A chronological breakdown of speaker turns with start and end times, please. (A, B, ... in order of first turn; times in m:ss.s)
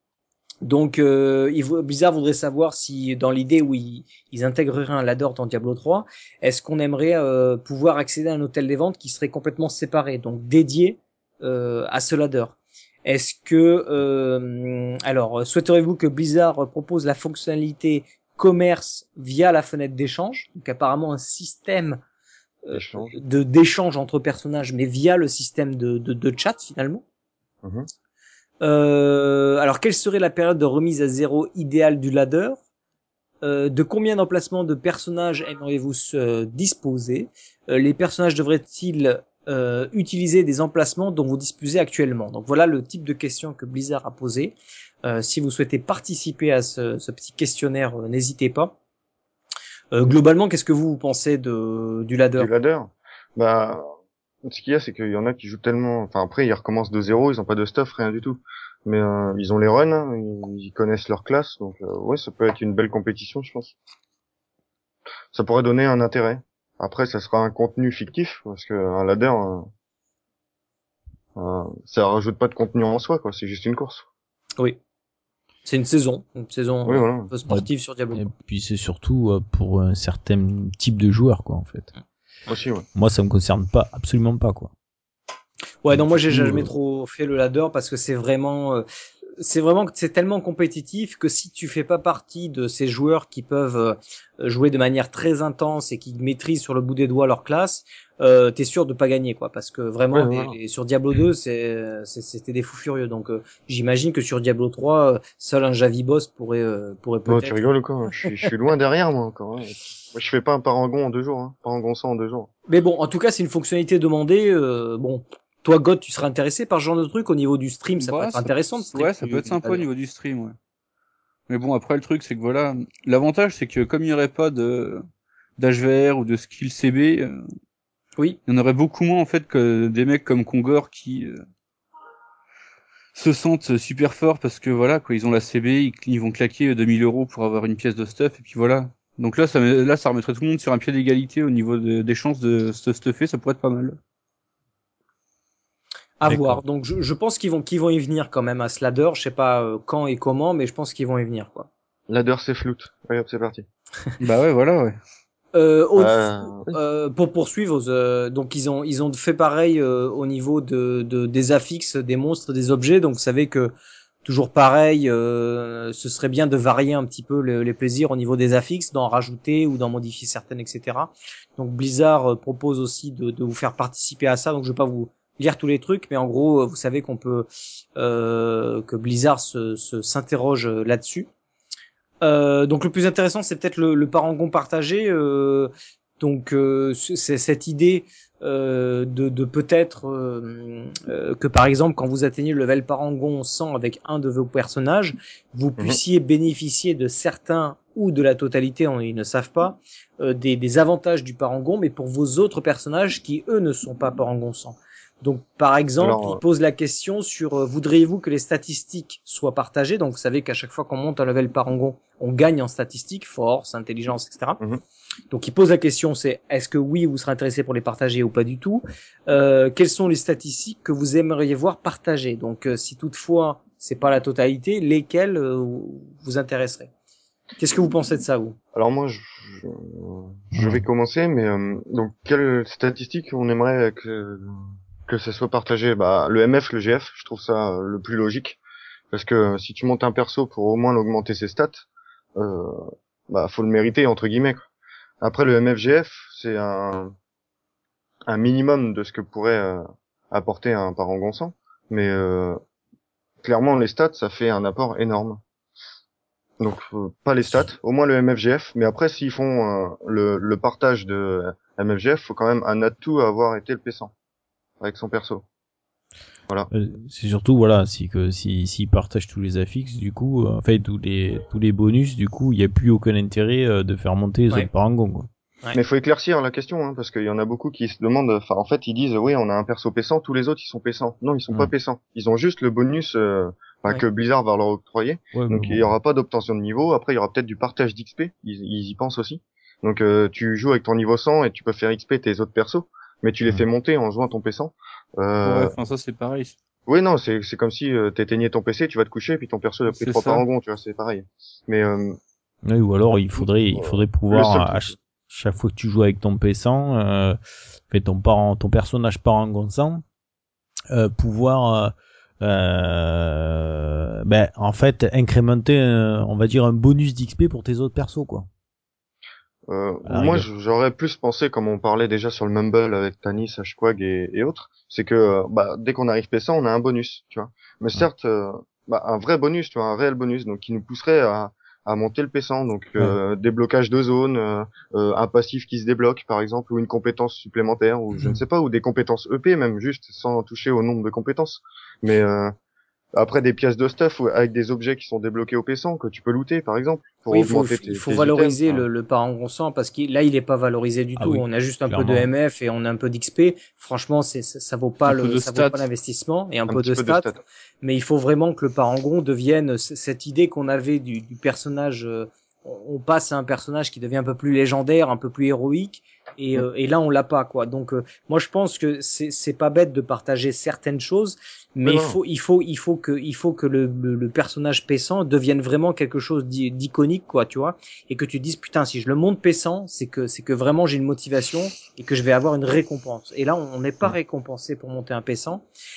0:00.6-0:22.0 A
0:22.6-0:27.0 A
0:22.7-0:23.2 B
0:27.6-0:27.9 B
0:28.6-0:32.6 A
0:33.4-0:48.7 A
0:49.9-0:52.5 A
0:52.4-0:53.8 B
0:54.4-1:03.7 B
1:05.3-1:09.7 B
1:11.4-1:14.0 B
1:15.6-1:18.3 A
1:16.8-1:17.3 B
1:17.5-1:21.9 C
1:22.5-1:22.8 B
1:22.9-1:24.7 C
1:25.8-1:28.8 A
1:25.9-1:26.7 C
1:29.4-1:47.7 A
1:40.1-1:40.6 B
1:47.3-1:52.5 B
1:52.7-1:59.9 A
1:58.0-2:00.6 D
2:01.5-2:05.0 D
2:05.6-2:07.4 D
2:08.5-2:11.4 D
2:13.1-2:24.0 D
2:26.2-2:31.7 A
2:26.2-2:26.6 C
2:32.1-2:33.6 B
2:34.2-2:35.0 D
2:35.5-2:43.7 A
2:36.0-2:36.7 B
2:44.2-3:01.3 A
3:02.2-3:34.6 A
3:26.0-3:26.4 B
3:35.3-3:46.9 A
3:47.6-3:48.6 A
3:48.7-3:58.6 B
3:50.5-3:50.8 C
3:59.1-4:01.8 B
4:02.4-4:04.6 B
4:05.2-4:07.1 B
4:08.3-4:12.6 B
4:13.4-4:15.4 B
4:16.6-4:24.1 B
4:24.8-4:25.4 B
4:26.7-4:35.3 C
4:35.7-4:55.7 B
4:45.3-4:45.9 C
4:55.4-4:56.6 D
4:56.9-5:02.2 B
4:59.9-5:00.4 D
5:02.6-5:10.0 C
5:03.4-5:05.0 B
5:10.9-5:18.5 C
5:19.7-5:42.5 B
5:20.0-5:20.5 C
5:38.1-5:38.4 C
5:43.1-5:48.8 B
5:47.3-5:57.3 A
5:51.2-5:52.3 C
5:55.0-5:55.8 D
5:56.7-5:57.4 B
5:57.8-6:25.6 A
6:11.8-6:12.2 B